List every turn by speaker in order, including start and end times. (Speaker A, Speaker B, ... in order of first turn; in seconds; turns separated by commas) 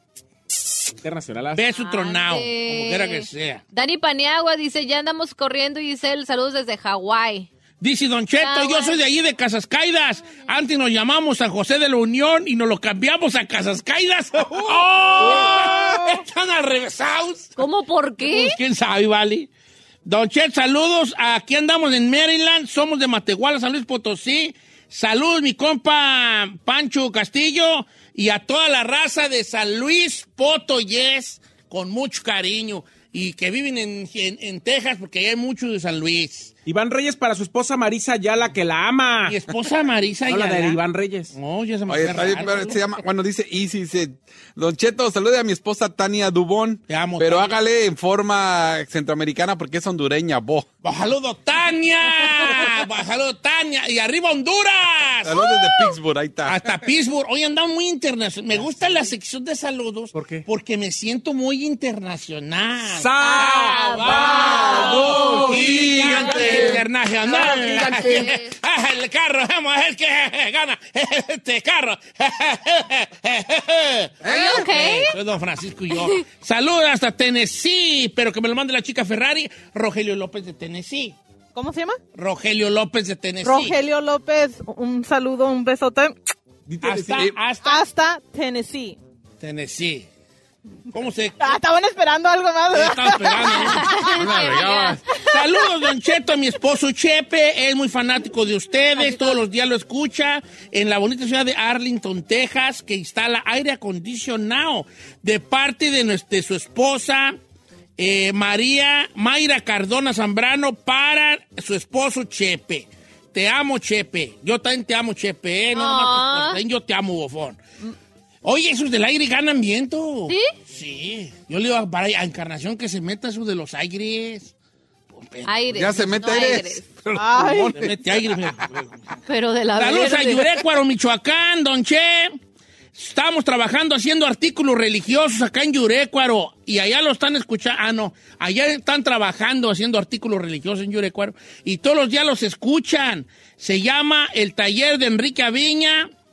Speaker A: 1.0-1.6, Speaker B: 1.6-3.6, Speaker C: 1.7-7.5, Speaker B: 7.8-17.6, Speaker C: 8.4-9.0, Speaker C: 17.6-18.6, Speaker B: 18.2-19.5, Speaker B: 20.0-36.5, Speaker A: 36.6-39.4, Speaker B: 39.2-40.8, Speaker A: 40.3-41.3, Speaker B: 41.3-42.8, Speaker D: 41.9-50.7, Speaker B: 46.9-47.6, Speaker B: 50.8-55.5, Speaker D: 55.2-56.7, Speaker C: 55.6-55.9, Speaker B: 56.4-81.2, Speaker A: 60.1-60.4, Speaker A: 62.9-68.3, Speaker C: 63.2-65.0, Speaker D: 64.2-66.8, Speaker C: 67.9-68.5, Speaker D: 74.2-75.0, Speaker C: 74.2-75.1, Speaker E: 81.5-82.0, Speaker B: 82.1-83.8, Speaker E: 83.4-86.2, Speaker A: 86.7-87.3, Speaker B: 86.8-87.8, Speaker E: 87.6-89.0, Speaker B: 89.4-90.1, Speaker B: 90.9-91.6, Speaker E: 91.4-94.2, Speaker B: 92.7-94.1, Speaker C: 93.8-95.3, Speaker D: 94.2-95.0, Speaker B: 95.2-107.4, Speaker C: 99.0-99.4, Speaker B: 108.0-117.6, Speaker C: 115.7-116.6, Speaker B: 118.4-124.5, Speaker C: 120.3-120.5, Speaker B: 125.1-126.5, Speaker C: 125.5-126.9, Speaker D: 125.7-127.9, Speaker E: 127.1-127.9, Speaker B: 127.7-129.2, Speaker C: 129.3-130.6, Speaker B: 129.7-132.4, Speaker B: 132.9-146.1